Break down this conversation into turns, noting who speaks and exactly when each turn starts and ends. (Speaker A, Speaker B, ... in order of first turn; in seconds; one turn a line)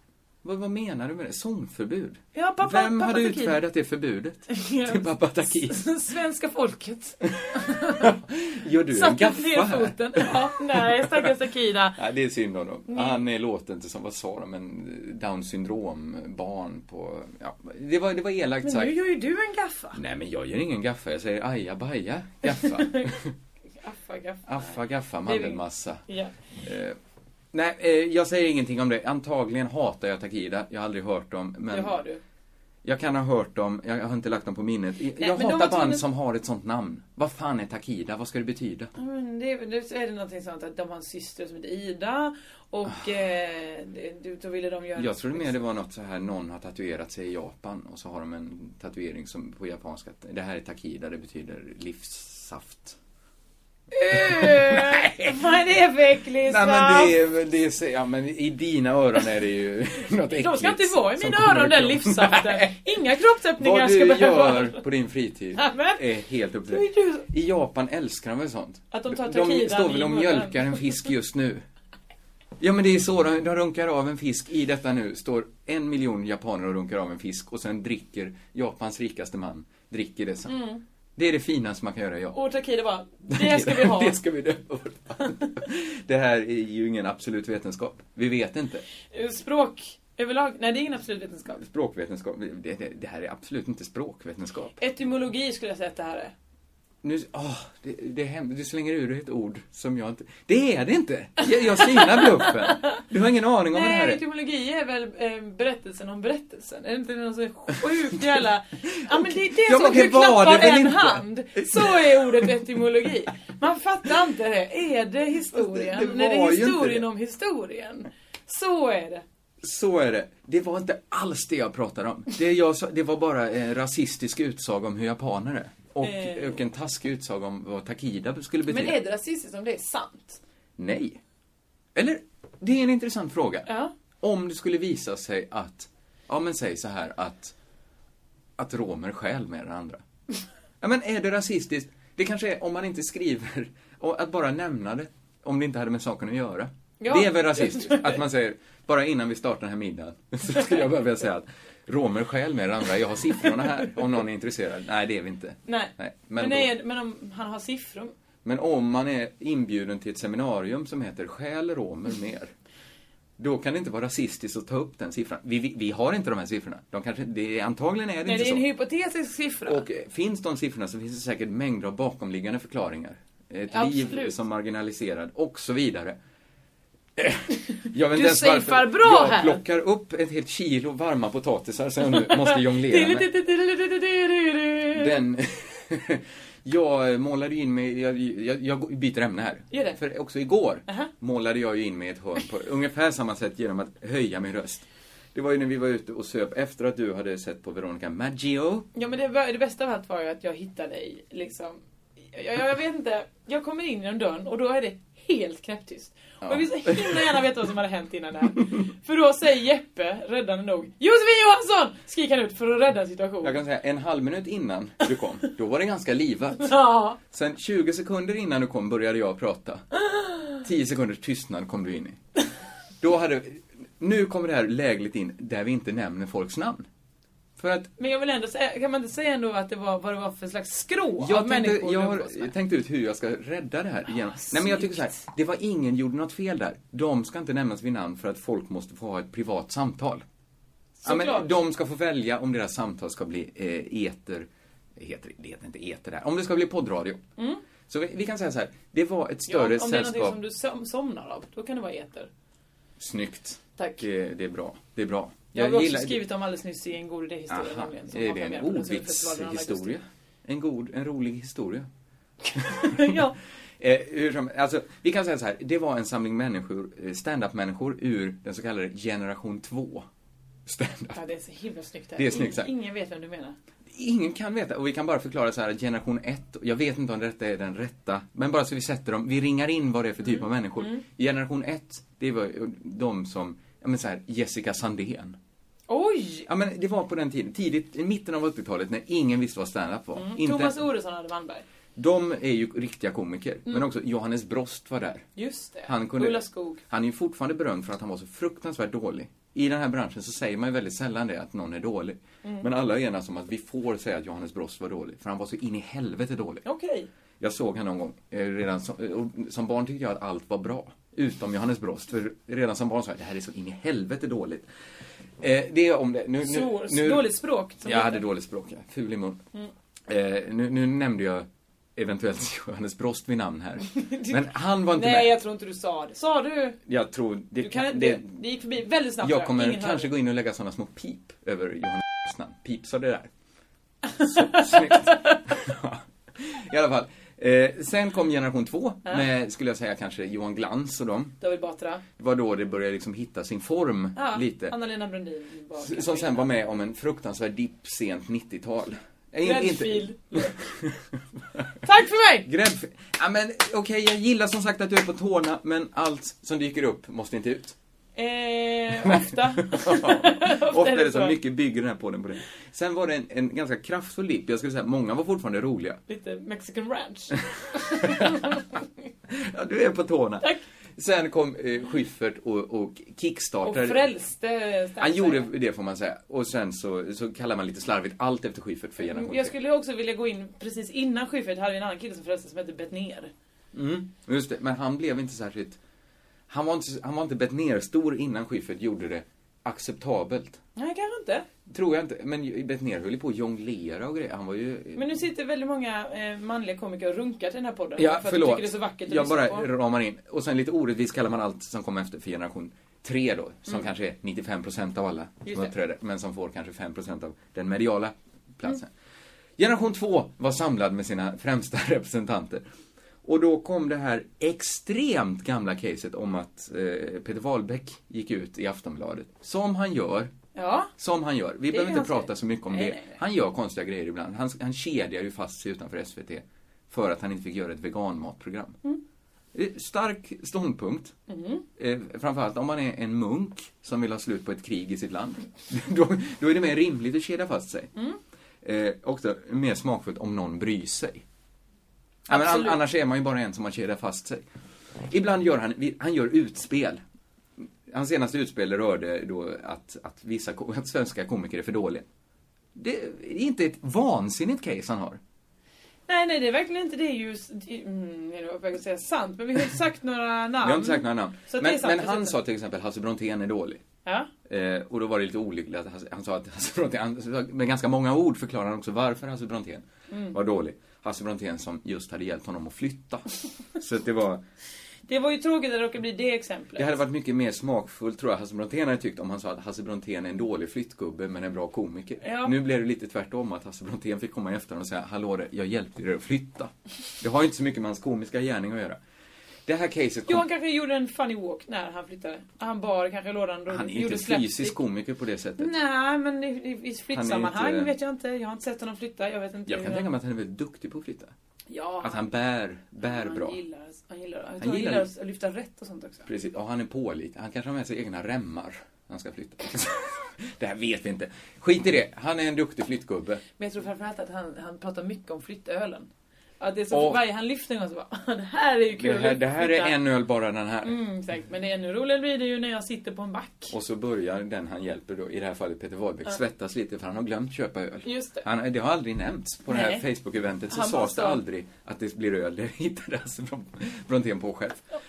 Speaker A: 0.4-5.8
Speaker B: 2.3-3.6
Speaker B: 4.5-8.1
Speaker A: 7.4-11.3
Speaker B: 8.9-12.0
Speaker A: 11.9-19.0
Speaker B: 12.9-13.2
Speaker B: 18.6-20.0
Speaker A: 19.9-23.3
Speaker B: 22.5-23.1
Speaker B: 23.8-26.3
Speaker A: 24.4-26.0
Speaker A: 26.6-27.0
Speaker A: 27.5-32.0
Speaker B: 31.7-32.2
Speaker A: 32.8-38.9
Speaker B: 35.2-36.0
Speaker B: 39.0-45.6
Speaker A: 45.0-53.0
Speaker B: 53.9-57.2
Speaker A: 54.1-55.4
Speaker A: 56.4-62.8
Speaker B: 60.3-64.8
Speaker A: 63.6-71.6
Speaker B: 65.5-66.0
Speaker B: 66.7-67.3
Speaker B: 68.9-71.1
Speaker A: 72.6-80.5
Speaker B: 80.5-80.8
Speaker A: 81.2-82.4
Speaker B: 82.3-84.2
Speaker A: 83.3-88.8
Speaker B: 89.1-91.6
Speaker A: 91.6-94.8
Speaker B: 94.8-96.3
Speaker A: 97.0-104.2
Speaker B: 101.8-103.0
Speaker B: 103.7-119.2
Speaker A: 109.1-112.6
Speaker A: 115.5-117.0
Speaker A: 119.6-129.0
Speaker B: 126.0-126.6
Speaker B: 128.7-130.4
Speaker A: 130.8-131.2
Speaker A: 131.9-133.7
Speaker B: 133.7-133.9
Speaker A: 134.2-137.5
Speaker A: 138.6-140.0
Speaker A: 140.8-156.7
Speaker B: 147.0-148.2
Speaker B: 155.7-158.1
Speaker A: 158.4-162.5
Speaker A: 163.4-168.7
Speaker B: 168.2-169.8
Speaker A: 169.7-176.2
Speaker B: 173.7-174.4
Speaker A: 177.2-183.3
Speaker B: 177.8-179.6
Speaker B: 182.1-185.2
Speaker A: 184.9-198.9
Speaker B: 189.7-190.0
Speaker B: 198.9-201.8
Speaker B: 202.3-213.6
Speaker A: 206.4-207.4
Speaker A: 213.4-216.7
Speaker B: 216.6-217.2
Speaker A: 217.3-219.8
Speaker B: 220.1-220.4
Speaker A: 220.6-222.2
Speaker A: 223.0-226.9
Speaker A: 227.6-227.9
Speaker B: 228.0-232.5
Speaker A: 231.2-240.2
Speaker B: 234.1-235.2
Speaker B: 241.0-241.5
Speaker A: 241.0-247.2
Speaker A: 247.9-250.4
Speaker B: 249.5-252.3
Speaker A: 253.0-256.2
Speaker B: 253.8-254.0
Speaker B: 255.5-260.0
Speaker A: 257.5-261.9
Speaker A: 262.5-263.2
Speaker B: 262.7-263.4
Speaker A: 263.8-270.1
Speaker A: 270.6-271.2
Speaker B: 271.1-273.6
Speaker A: 272.1-272.7
Speaker A: 273.9-285.4
Speaker B: 280.2-281.0
Speaker B: 285.9-286.4
Speaker A: 286.4-290.8
Speaker B: 290.1-291.6
Speaker A: 291.9-295.2
Speaker B: 295.4-296.8
Speaker A: 295.9-306.6
Speaker B: 306.6-307.1
Speaker A: 307.4-314.7
Speaker A: 315.4-317.3
Speaker B: 316.4-318.2
Speaker A: 317.8-319.4
Speaker A: 320.1-325.3
Speaker B: 324.0-326.8
Speaker A: 326.9-328.3
Speaker B: 327.6-330.1
Speaker A: 329.2-333.3
Speaker A: 334.2-341.4
Speaker B: 334.2-335.1
Speaker B: 341.4-342.0
Speaker A: 342.2-344.7
Speaker B: 344.1-346.5
Speaker A: 345.8-351.0
Speaker B: 349.4-350.6
Speaker B: 351.8-352.5
Speaker A: 352.4-357.7
Speaker B: 358.1-361.4
Speaker A: 359.0-366.0
Speaker B: 366.1-368.6
Speaker A: 367.8-368.4
Speaker A: 369.3-374.1
Speaker B: 373.6-375.5
Speaker A: 375.0-379.5
Speaker B: 379.0-383.3
Speaker A: 383.7-385.8
Speaker A: 386.5-390.6
Speaker B: 390.8-391.5
Speaker A: 391.7-395.1
Speaker B: 394.9-399.7
Speaker A: 398.0-408.9
Speaker B: 405.4-405.7
Speaker A: 409.6-412.6
Speaker A: 413.2-420.3
Speaker B: 420.5-420.9
Speaker A: 421.0-428.8
Speaker B: 421.7-423.2
Speaker A: 429.5-431.1
Speaker B: 431.3-431.6
Speaker A: 431.8-437.9
Speaker A: 438.6-441.2
Speaker A: 442.3-444.4
Speaker B: 442.3-442.8
Speaker A: 445.0-447.0
Speaker A: 447.6-452.1
Speaker A: 452.7-455.2
Speaker B: 456.1-462.4
Speaker A: 460.6-463.8
Speaker B: 464.0-464.3
Speaker A: 464.4-473.2
Speaker B: 470.1-470.4
Speaker A: 473.8-474.4
Speaker B: 475.1-477.0
Speaker A: 476.8-489.0
Speaker B: 482.2-482.5
Speaker A: 489.6-490.4
Speaker B: 490.3-494.8
Speaker A: 493.7-495.7
Speaker B: 495.6-500.1
Speaker A: 497.1-497.9
Speaker A: 499.6-501.3
Speaker B: 501.7-502.3
Speaker A: 502.0-503.6
Speaker B: 503.0-506.3
Speaker A: 504.6-505.1
Speaker A: 506.3-513.4
Speaker B: 513.6-516.1
Speaker B: 516.6-519.9
Speaker A: 516.9-517.2
Speaker A: 518.9-521.0
Speaker B: 520.8-523.7
Speaker A: 523.7-534.9
Speaker B: 528.0-528.5
Speaker B: 529.7-530.0
Speaker B: 530.7-531.4